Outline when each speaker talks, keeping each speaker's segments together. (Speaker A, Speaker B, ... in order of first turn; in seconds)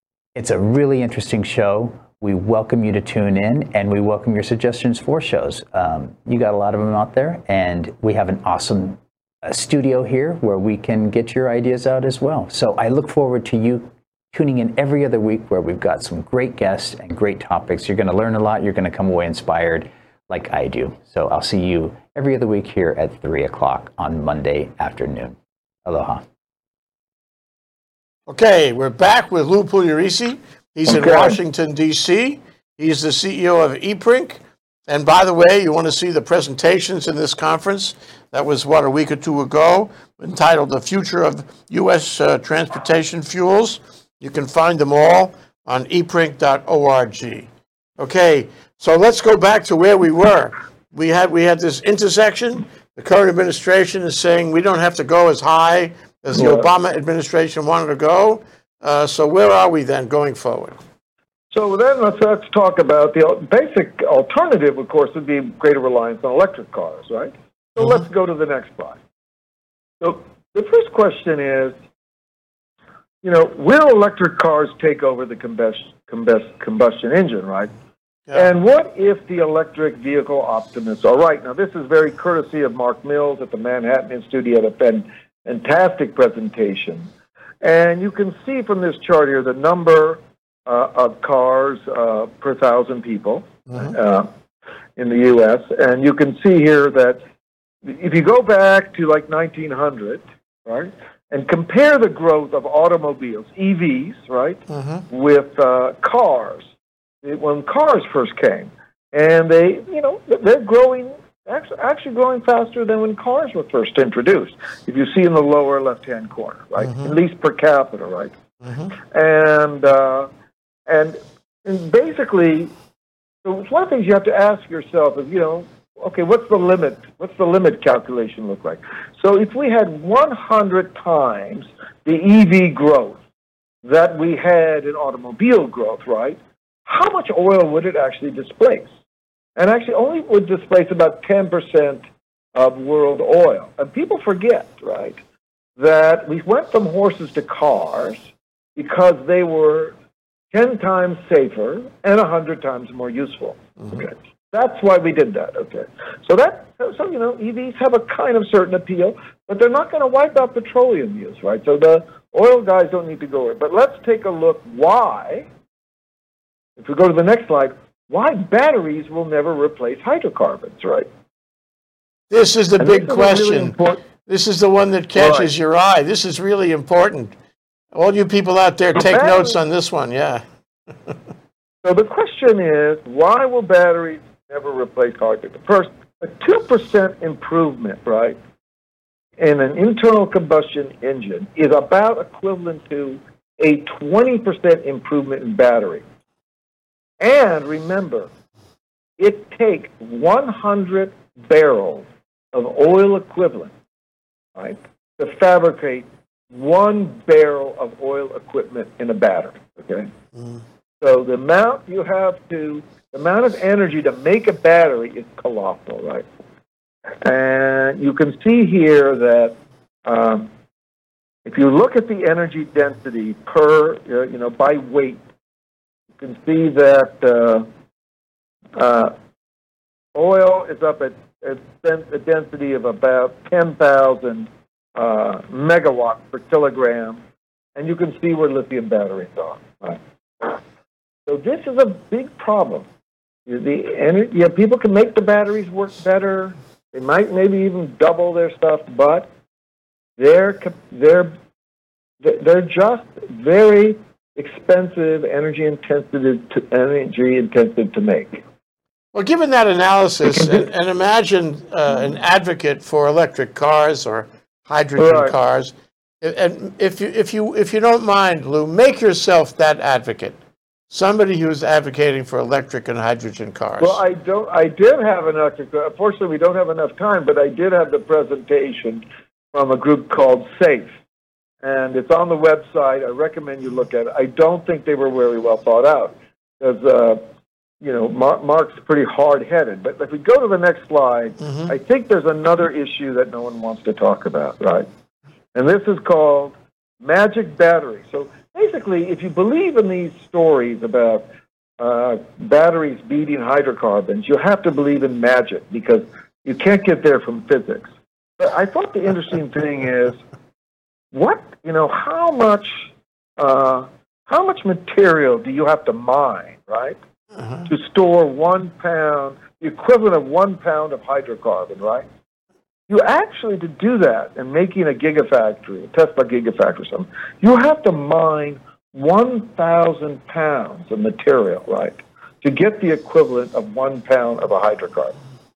Speaker A: 0.3-26.2
Speaker B: 28.3-47.5, 48.0-60.8, 93.7-93.9, 104.7-105.0, 116.8-117.1, 118.6-118.9, 172.3-177.3, 177.9-180.4, 259.1-270.4, 270.9-274.0, 291.4-291.7, 317.4-317.7
Speaker C: 30.9-31.4, 56.3-56.7, 61.5-69.0, 70.0-71.8, 73.2-77.7, 78.3-87.1, 87.6-94.3, 95.0-97.2, 97.8-106.7, 107.2-118.3, 118.9-120.3, 120.9-122.7, 123.4-133.2, 133.8-138.9, 139.6-142.0, 142.5-145.2, 145.8-148.2, 148.8-149.9, 150.5-165.5, 166.8-171.1, 172.8-174.0, 175.1-175.5, 178.9-179.6, 181.8-188.4, 189.4-196.0, 197.2-198.3, 199.2-203.7, 204.6-210.1, 211.0-216.2, 217.2-220.5, 221.4-225.2, 226.2-227.7, 228.8-229.1, 230.1-237.2, 237.8-240.6, 241.3-242.9, 243.4-249.3, 250.2-251.3, 252.2-258.4, 265.0-265.3, 273.8-280.9, 281.6-287.2, 287.8-294.9, 295.5-301.2, 301.8-307.9, 308.4-310.2, 311.1-317.0, 317.6-322.0, 322.9-335.1